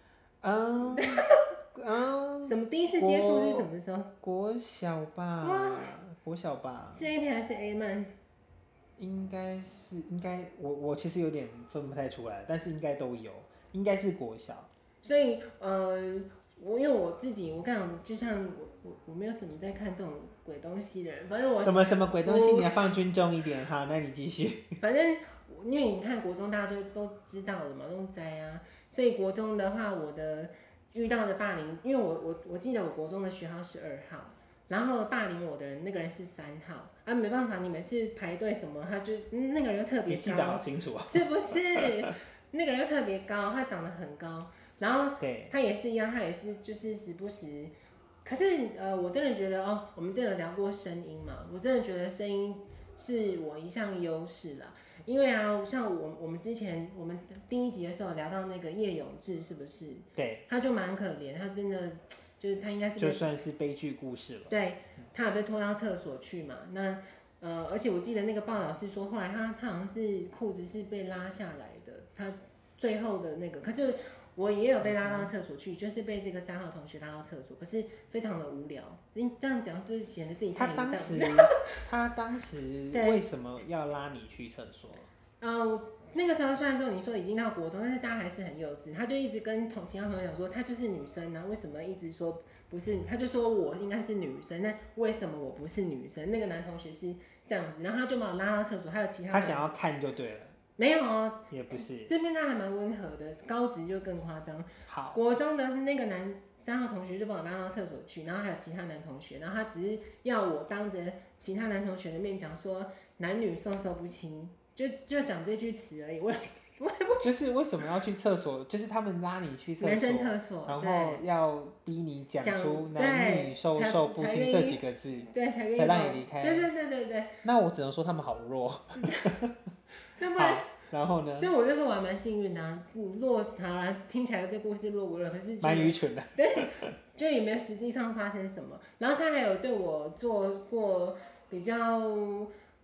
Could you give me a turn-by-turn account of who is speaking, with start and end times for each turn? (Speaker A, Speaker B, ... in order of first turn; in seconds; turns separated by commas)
Speaker A: 0.4-3.7, Speaker B: 0.9-1.5, Speaker B: 2.4-4.1, Speaker A: 4.2-7.1, Speaker B: 5.4-6.0, Speaker B: 7.0-8.1, Speaker A: 9.0-14.7, Speaker B: 15.0-22.9, Speaker A: 21.6-24.8, Speaker B: 24.8-47.7, Speaker A: 40.1-42.1, Speaker A: 45.2-45.5, Speaker B: 48.2-63.2, Speaker A: 60.2-60.5, Speaker A: 63.0-64.5, Speaker B: 64.5-81.6, Speaker A: 74.8-75.3, Speaker A: 80.5-85.1, Speaker B: 82.9-83.3, Speaker B: 85.4-99.6, Speaker A: 99.3-100.6, Speaker B: 100.8-117.3, Speaker A: 101.5-102.1, Speaker A: 104.9-105.2, Speaker A: 117.2-126.7, Speaker B: 119.8-121.2, Speaker B: 122.4-127.4, Speaker A: 127.4-129.6, Speaker B: 128.9-129.3, Speaker B: 130.2-130.7, Speaker A: 130.3-131.5, Speaker B: 131.4-142.5, Speaker A: 135.6-136.9